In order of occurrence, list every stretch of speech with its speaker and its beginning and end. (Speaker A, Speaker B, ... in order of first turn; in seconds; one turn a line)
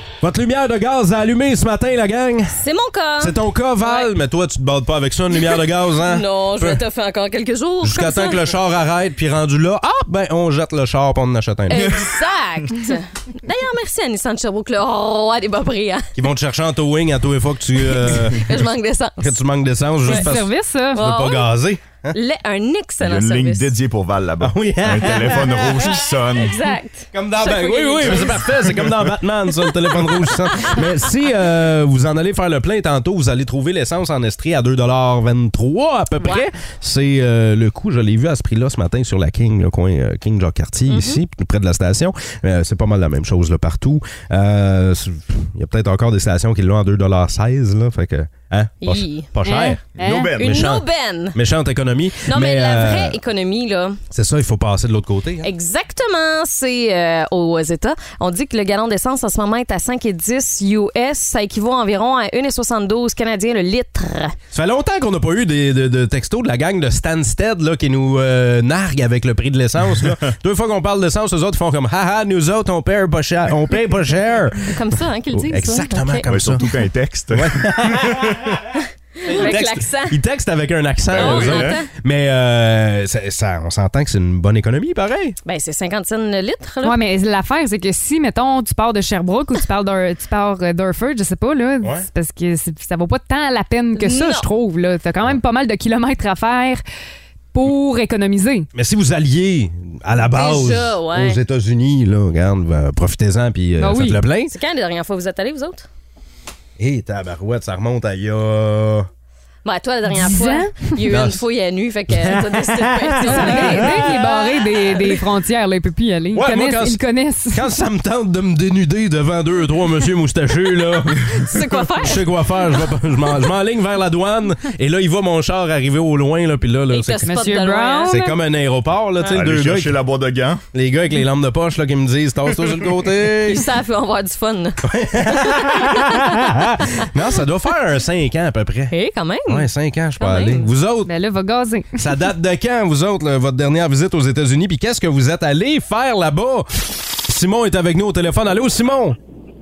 Speaker A: 0.2-2.6
Speaker B: 2.6-4.1
Speaker A: 3.2-6.8
Speaker B: 5.3-8.5
Speaker A: 7.8-12.1
Speaker B: 11.7-16.1
Speaker A: 16.2-18.7
Speaker B: 18.0-19.4
Speaker A: 19.2-22.2
Speaker B: 20.0-20.3
Speaker C: 20.1-21.1
Speaker B: 20.9-21.5
Speaker B: 22.1-23.8
Speaker D: 23.0-26.6
Speaker A: 24.4-26.2
Speaker B: 26.4-28.7
Speaker A: 27.1-49.8
Speaker B: 29.6-31.0
Speaker B: 36.2-36.5
Speaker B: 40.9-41.2
Speaker B: 48.8-49.4
Speaker C: 49.4-50.4
Speaker D: 50.0-50.6
Speaker B: 50.4-51.4
Speaker A: 50.4-53.2
Speaker B: 52.2-54.0
Speaker A: 54.1-55.5
Speaker B: 55.4-64.3
Speaker A: 64.5-76.8
Speaker B: 74.6-76.3
Speaker D: 76.3-78.3
Speaker A: 77.3-78.7
Speaker B: 79.2-80.2
Speaker A: 79.3-85.4
Speaker D: 81.1-81.8
Speaker B: 81.1-81.9
Speaker B: 85.5-87.0
Speaker C: 86.8-96.8
Speaker A: 91.8-92.1
Speaker B: 94.0-94.5
Speaker C: 97.5-98.7
Speaker A: 98.7-104.5
Speaker B: 100.2-101.4
Speaker C: 103.8-104.2
Speaker B: 104.5-105.9
Speaker A: 106.8-109.1
Speaker B: 109.7-115.1
Speaker C: 110.1-111.0
Speaker A: 111.0-111.4
Speaker A: 112.1-114.5
Speaker C: 113.2-117.7
Speaker A: 116.3-127.3
Speaker B: 121.3-122.9
Speaker B: 126.9-128.1
Speaker C: 127.3-128.4
Speaker A: 128.1-130.0
Speaker D: 129.2-130.6
Speaker A: 130.7-133.6
Speaker B: 133.4-136.2
Speaker A: 134.9-138.9
Speaker B: 138.9-140.7
Speaker A: 139.5-141.1
Speaker C: 141.1-142.1
Speaker A: 142.0-149.2